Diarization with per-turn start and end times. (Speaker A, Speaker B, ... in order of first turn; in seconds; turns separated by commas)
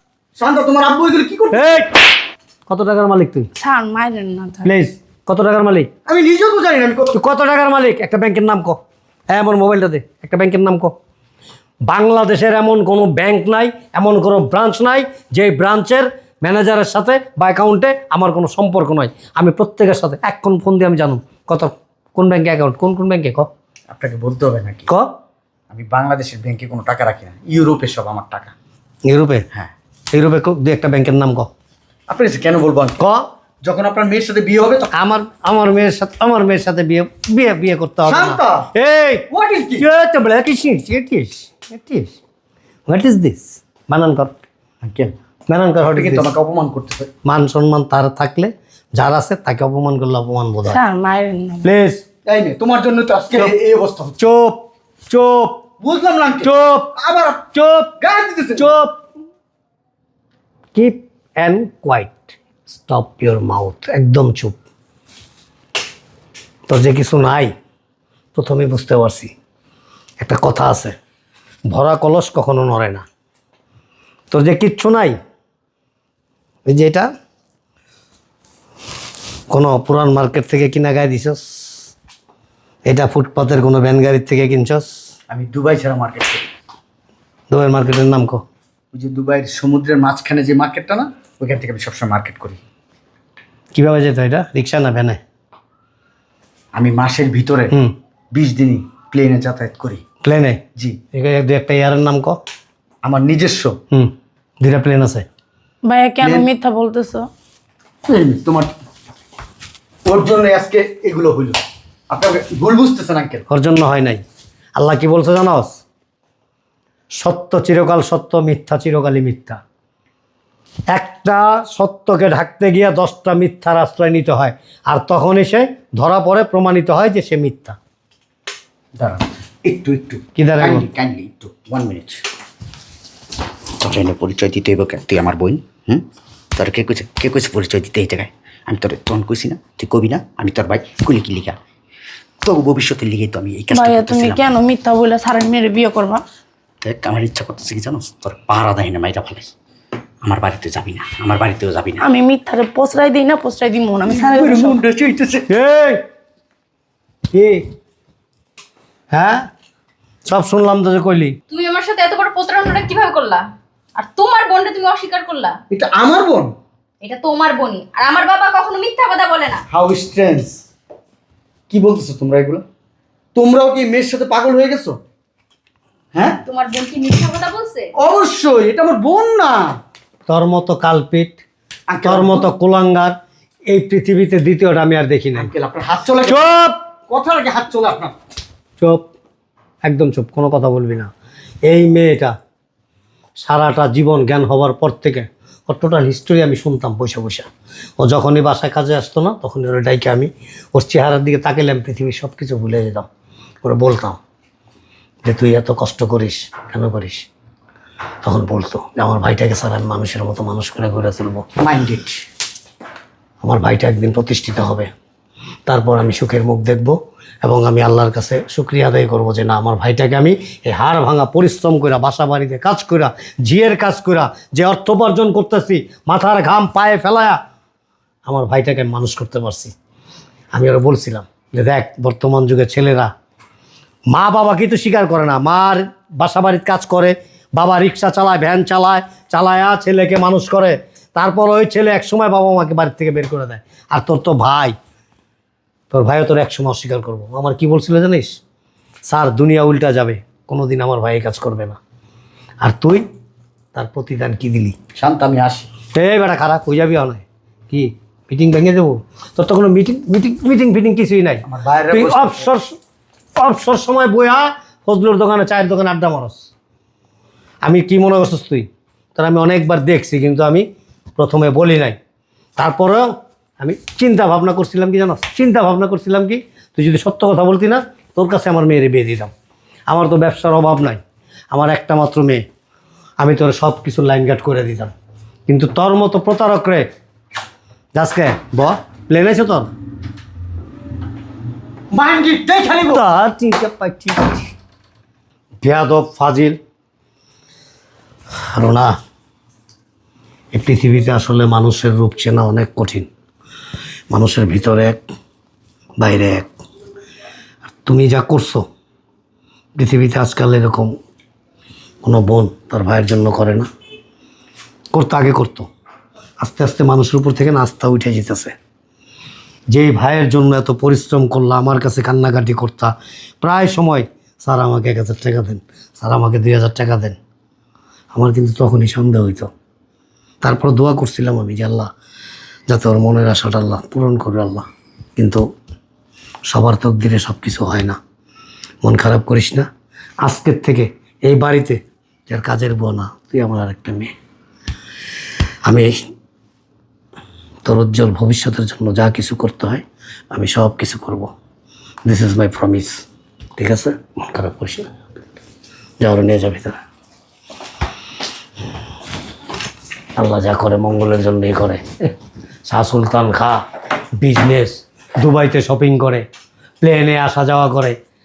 Speaker A: 0.4-1.7, Speaker B: 1.5-1.9, Speaker B: 2.7-3.5, Speaker C: 3.6-4.7, Speaker B: 4.6-5.9, Speaker A: 6.1-7.2, Speaker B: 7.1-10.9, Speaker B: 11.8-23.5, Speaker A: 23.9-24.9, Speaker A: 25.7-28.5, Speaker B: 29.1-29.4, Speaker B: 30.1-31.5, Speaker A: 32.1-33.0, Speaker B: 33.0-33.2, Speaker A: 33.6-34.9, Speaker B: 34.9-39.3, Speaker A: 38.1-38.7, Speaker A: 39.3-39.9, Speaker B: 39.8-42.2, Speaker B: 42.9-44.3, Speaker A: 44.8-45.1, Speaker B: 45.5-46.3, Speaker A: 46.0-47.1, Speaker B: 47.2-50.8, Speaker C: 50.7-51.7, Speaker B: 51.6-52.0, Speaker A: 52.3-54.2, Speaker B: 54.2-55.6, Speaker A: 55.8-57.5, Speaker B: 56.4-56.9, Speaker B: 57.5-58.0, Speaker A: 58.0-58.7, Speaker B: 58.6-59.0, Speaker B: 60.8-64.6, Speaker B: 66.7-67.5, Speaker B: 68.3-69.3, Speaker B: 70.2-71.0, Speaker B: 71.7-73.0, Speaker B: 74.3-75.2, Speaker B: 76.7-77.1, Speaker B: 79.5-81.9, Speaker B: 82.9-84.9, Speaker A: 85.3-86.5, Speaker B: 87.5-88.4, Speaker A: 88.9-92.6, Speaker B: 93.7-95.2, Speaker A: 96.7-97.7, Speaker A: 98.3-100.0, Speaker B: 100.2-100.6, Speaker B: 101.1-102.4, Speaker A: 103.0-103.8, Speaker B: 104.6-105.2, Speaker C: 105.9-107.3, Speaker A: 106.2-106.5, Speaker A: 108.1-108.7, Speaker A: 110.1-113.4, Speaker B: 113.5-114.2, Speaker B: 114.8-115.8, Speaker B: 117.2-119.6, Speaker B: 120.9-127.8, Speaker A: 129.0-132.2, Speaker B: 130.4-130.9, Speaker A: 133.8-136.0, Speaker A: 136.6-141.6, Speaker A: 142.4-144.5, Speaker C: 143.7-146.2, Speaker A: 146.8-149.5, Speaker A: 150.2-152.0, Speaker C: 152.0-154.8, Speaker A: 154.1-155.5, Speaker B: 155.5-156.0, Speaker B: 157.3-157.6, Speaker B: 159.1-159.4, Speaker B: 160.3-161.4, Speaker D: 161.5-163.4, Speaker D: 164.0-165.6, Speaker A: 165.7-166.5, Speaker D: 167.0-169.6, Speaker A: 169.7-170.6, Speaker A: 171.7-172.6, Speaker A: 173.3-175.0, Speaker A: 176.1-176.4, Speaker D: 176.5-177.9, Speaker A: 178.0-179.8, Speaker B: 180.3-181.4, Speaker A: 181.9-182.5, Speaker B: 182.0-183.1, Speaker B: 183.7-185.5, Speaker A: 185.4-186.4, Speaker B: 186.2-186.8, Speaker A: 187.1-188.2, Speaker B: 189.8-191.1, Speaker B: 191.7-192.3, Speaker B: 193.4-197.5, Speaker B: 198.0-203.1, Speaker B: 203.6-204.2, Speaker B: 205.2-207.3, Speaker B: 208.2-211.5, Speaker A: 211.6-212.2, Speaker B: 213.4-214.9, Speaker B: 215.7-227.4, Speaker B: 228.3-229.7, Speaker B: 230.5-233.1, Speaker B: 234.1-244.8, Speaker B: 245.9-248.4, Speaker B: 249.1-251.8, Speaker B: 252.6-253.0, Speaker B: 253.8-254.8, Speaker A: 254.9-255.7, Speaker B: 255.9-262.8, Speaker A: 261.5-262.4, Speaker B: 263.4-266.5, Speaker B: 267.6-270.7, Speaker B: 271.2-272.0, Speaker B: 272.6-279.3, Speaker B: 279.9-281.0, Speaker B: 281.5-282.4, Speaker B: 283.2-284.9, Speaker B: 285.5-286.9, Speaker B: 287.9-289.7, Speaker A: 291.9-293.0, Speaker B: 292.9-294.5, Speaker B: 295.6-296.6, Speaker B: 298.5-298.9, Speaker B: 300.5-303.1, Speaker B: 304.1-305.0, Speaker B: 306.0-306.5, Speaker B: 307.8-308.6, Speaker B: 309.8-310.9, Speaker B: 312.0-313.7, Speaker B: 314.9-315.7, Speaker B: 316.4-318.5, Speaker B: 319.7-327.2, Speaker B: 328.1-329.5, Speaker B: 330.4-331.9, Speaker B: 332.7-334.6, Speaker B: 335.2-335.4, Speaker B: 336.5-338.0, Speaker B: 338.8-339.7, Speaker B: 340.2-341.8, Speaker B: 342.3-344.1, Speaker B: 347.6-351.3, Speaker B: 352.1-353.0, Speaker B: 353.6-354.9, Speaker B: 356.0-356.8, Speaker B: 360.2-362.1, Speaker B: 362.7-363.6, Speaker B: 364.2-366.3, Speaker B: 366.8-368.0